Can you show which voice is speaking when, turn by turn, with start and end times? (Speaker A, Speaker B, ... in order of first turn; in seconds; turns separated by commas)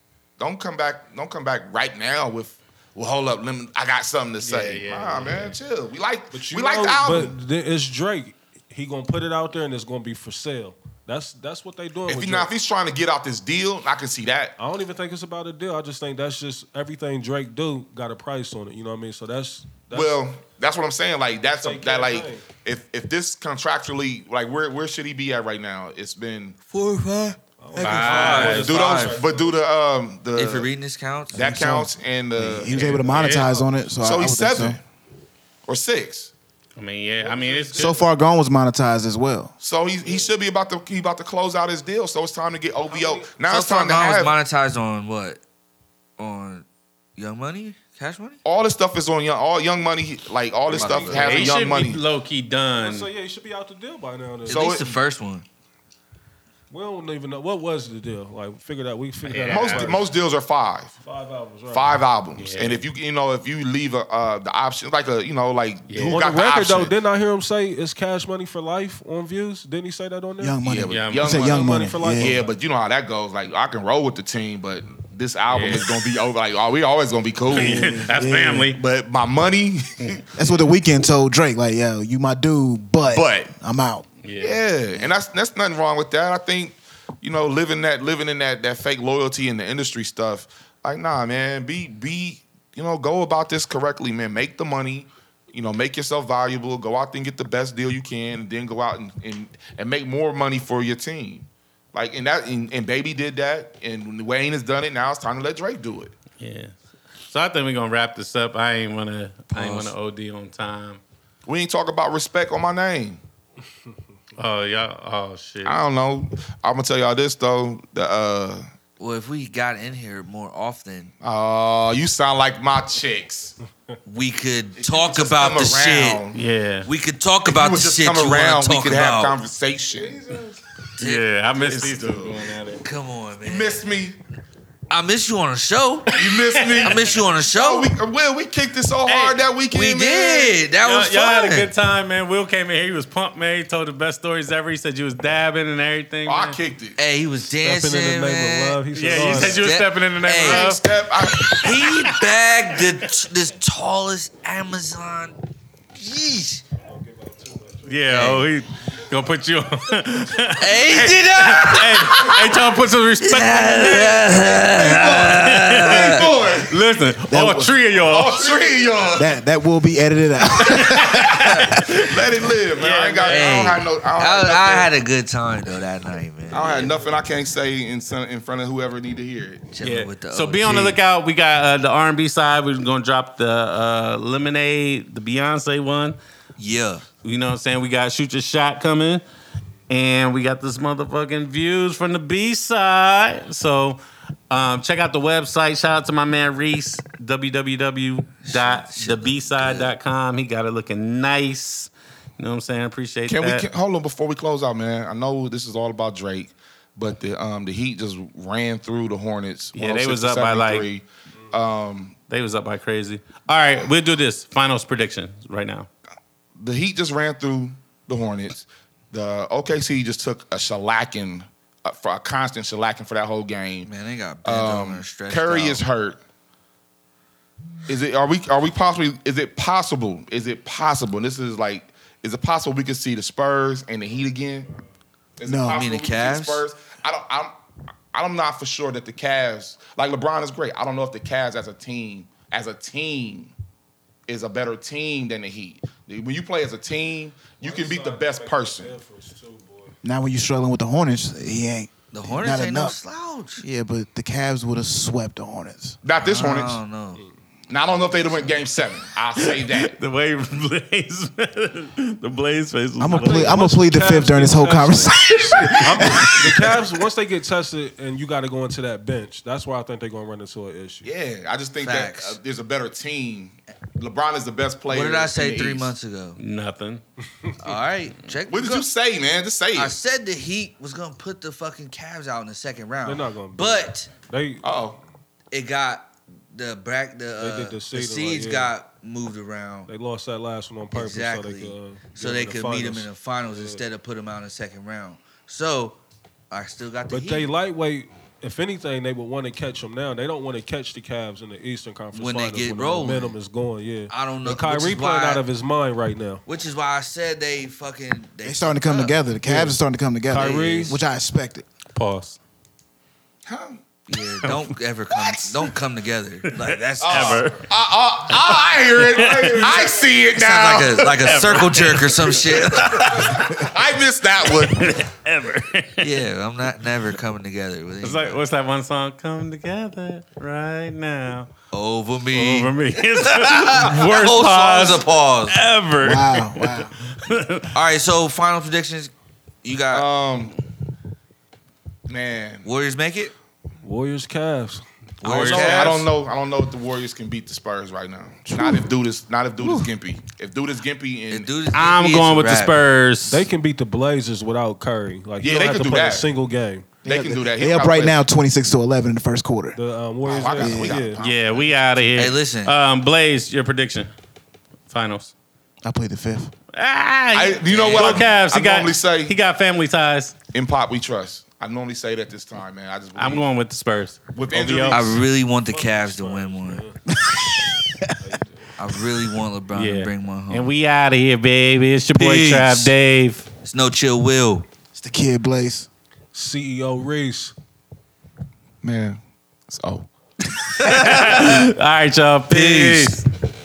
Speaker A: 0.4-7.3, Speaker B: 4.4-5.6, Speaker C: 6.3-12.5, Speaker A: 12.1-14.5, Speaker C: 14.6-20.2, Speaker A: 19.9-26.6, Speaker C: 21.6-22.5, Speaker D: 26.7-29.2, Speaker C: 27.6-29.5, Speaker B: 27.8-28.8, Speaker A: 28.0-30.7, Speaker D: 30.3-31.3, Speaker E: 31.3-34.8, Speaker A: 31.3-34.8, Speaker B: 32.7-33.6, Speaker A: 35.7-36.3, Speaker B: 36.8-38.0, Speaker C: 37.2-38.1, Speaker E: 37.8-39.5, Speaker A: 39.6-44.3, Speaker C: 40.0-40.3, Speaker C: 42.9-43.3, Speaker D: 43.4-45.4, Speaker D: 46.2-46.6, Speaker D: 47.2-48.4, Speaker A: 48.4-52.0, Speaker C: 50.7-51.5, Speaker D: 50.7-51.4, Speaker B: 51.0-53.1, Speaker C: 52.8-54.8, Speaker D: 54.4-55.4, Speaker A: 54.5-54.9, Speaker C: 56.7-60.0, Speaker B: 59.2-59.9, Speaker A: 59.5-60.9, Speaker C: 61.0-62.0, Speaker A: 61.7-66.9, Speaker B: 62.4-62.8, Speaker B: 65.9-66.2, Speaker C: 66.0-70.6, Speaker E: 70.4-72.4, Speaker A: 70.6-78.1, Speaker B: 70.9-71.4, Speaker C: 71.3-72.5, Speaker B: 75.5-75.9, Speaker E: 77.5-78.7, Speaker B: 77.5-78.8, Speaker A: 78.7-80.2, Speaker E: 80.3-84.1, Speaker A: 83.1-83.5, Speaker B: 84.2-84.6, Speaker A: 84.4-106.1, Speaker B: 106.4-106.7, Speaker B: 107.3-111.0, Speaker D: 109.5-109.9, Speaker A: 111.5-113.2, Speaker B: 114.4-115.8, Speaker A: 115.6-118.7, Speaker D: 119.0-121.1, Speaker A: 121.2-123.5, Speaker D: 124.0-126.2, Speaker A: 124.8-126.4, Speaker B: 126.3-126.9, Speaker D: 126.8-129.4, Speaker A: 127.4-130.6, Speaker D: 131.0-131.2, Speaker B: 131.0-132.8, Speaker A: 131.6-132.4, Speaker D: 132.8-133.8, Speaker A: 133.4-134.2, Speaker D: 134.9-136.1, Speaker B: 136.1-137.1, Speaker A: 136.1-140.6, Speaker D: 136.8-137.9, Speaker B: 139.0-139.4, Speaker D: 139.7-141.7, Speaker B: 140.8-146.6, Speaker A: 146.3-147.0, Speaker D: 147.0-150.8, Speaker C: 147.5-149.6, Speaker B: 148.9-152.0, Speaker A: 150.4-151.8, Speaker D: 151.6-155.4, Speaker D: 155.9-156.6, Speaker C: 156.8-158.4, Speaker B: 157.8-168.6, Speaker D: 158.1-158.5, Speaker D: 160.6-162.3, Speaker A: 160.9-162.4, Speaker D: 163.2-166.3, Speaker A: 164.6-167.0, Speaker E: 167.3-167.7, Speaker A: 168.0-169.4, Speaker E: 169.2-171.8, Speaker B: 170.7-172.2, Speaker A: 172.0-174.9, Speaker B: 172.7-173.6, Speaker D: 173.3-177.0, Speaker A: 176.5-179.7, Speaker D: 179.7-181.0, Speaker B: 179.8-186.2, Speaker D: 186.6-187.0, Speaker B: 187.2-189.2, Speaker B: 189.9-203.7, Speaker D: 198.4-199.9, Speaker A: 203.3-212.1, Speaker B: 209.7-210.8, Speaker B: 212.3-215.9, Speaker A: 216.6-223.9, Speaker D: 223.8-225.8, Speaker A: 224.4-226.2, Speaker A: 227.9-234.7, Speaker A: 235.4-237.5, Speaker E: 235.4-235.8, Speaker D: 235.7-236.7, Speaker A: 238.1-243.5, Speaker A: 244.3-248.9, Speaker C: 247.6-250.0, Speaker E: 250.0-252.9, Speaker D: 252.1-253.6, Speaker E: 253.6-256.0, Speaker A: 256.0-256.8, Speaker D: 256.1-257.2, Speaker A: 257.7-260.0, Speaker B: 259.3-263.6, Speaker E: 263.0-266.8, Speaker C: 263.1-265.2, Speaker B: 265.3-266.6, Speaker C: 265.8-271.1, Speaker A: 271.0-275.9, Speaker D: 271.8-272.4, Speaker D: 274.9-276.4, Speaker B: 276.4-277.0, Speaker D: 277.6-278.9, Speaker A: 278.5-279.9, Speaker D: 279.7-284.1, Speaker C: 283.0-284.7, Speaker A: 284.6-285.0, Speaker D: 285.5-289.9, Speaker C: 287.4-288.7, Speaker C: 289.9-293.8, Speaker D: 290.9-296.0, Speaker D: 296.5-297.5, Speaker C: 297.1-306.4, Speaker D: 302.1-303.4, Speaker D: 304.1-305.4, Speaker D: 306.4-309.2, Speaker E: 308.4-311.6, Speaker C: 309.4-309.8, Speaker C: 310.3-311.0, Speaker D: 310.3-311.0, Speaker B: 311.9-312.4, Speaker A: 313.4-313.8, Speaker D: 314.1-317.5, Speaker B: 314.1-314.8, Speaker B: 316.4-317.7, Speaker A: 317.0-321.4, Speaker B: 318.3-319.9, Speaker D: 320.4-323.1, Speaker B: 320.9-323.6, Speaker A: 322.8-325.0, Speaker B: 324.4-326.2, Speaker D: 326.0-328.4, Speaker B: 328.0-331.5, Speaker D: 331.7-335.6, Speaker B: 332.3-337.7, Speaker E: 336.0-336.9, Speaker D: 337.7-339.1, Speaker D: 339.6-340.0, Speaker A: 339.9-340.6, Speaker A: 342.1-342.7, Speaker D: 342.6-343.3, Speaker C: 343.8-344.8, Speaker D: 345.2-346.1, Speaker B: 345.2-346.0, Speaker A: 345.2-351.5, Speaker E: 348.4-348.9, Speaker E: 349.6-349.9, Speaker D: 351.3-352.8, Speaker B: 351.7-353.5, Speaker C: 353.3-356.9, Speaker A: 355.4-356.3, Speaker E: 357.0-359.8, Speaker A: 357.0-358.2, Speaker C: 359.8-361.2, Speaker A: 360.2-361.6, Speaker E: 360.4-361.1, Speaker B: 361.2-364.1, Speaker D: 362.1-362.7, Speaker B: 364.9-365.3, Speaker E: 365.8-366.5, Speaker B: 366.7-370.4, Speaker A: 367.3-369.4, Speaker D: 367.7-368.2, Speaker A: 370.5-373.4, Speaker B: 373.1-375.1, Speaker A: 374.3-375.2, Speaker D: 374.9-376.8, Speaker C: 375.5-377.0, Speaker E: 377.1-378.1, Speaker C: 378.2-378.7, Speaker D: 378.8-380.7, Speaker B: 379.7-383.5, Speaker D: 382.1-382.9, Speaker D: 383.6-384.7, Speaker E: 384.9-385.9, Speaker C: 386.3-387.5, Speaker A: 388.8-389.2, Speaker A: 389.7-390.1, Speaker B: 390.8-393.2, Speaker D: 390.9-391.5, Speaker D: 392.5-393.2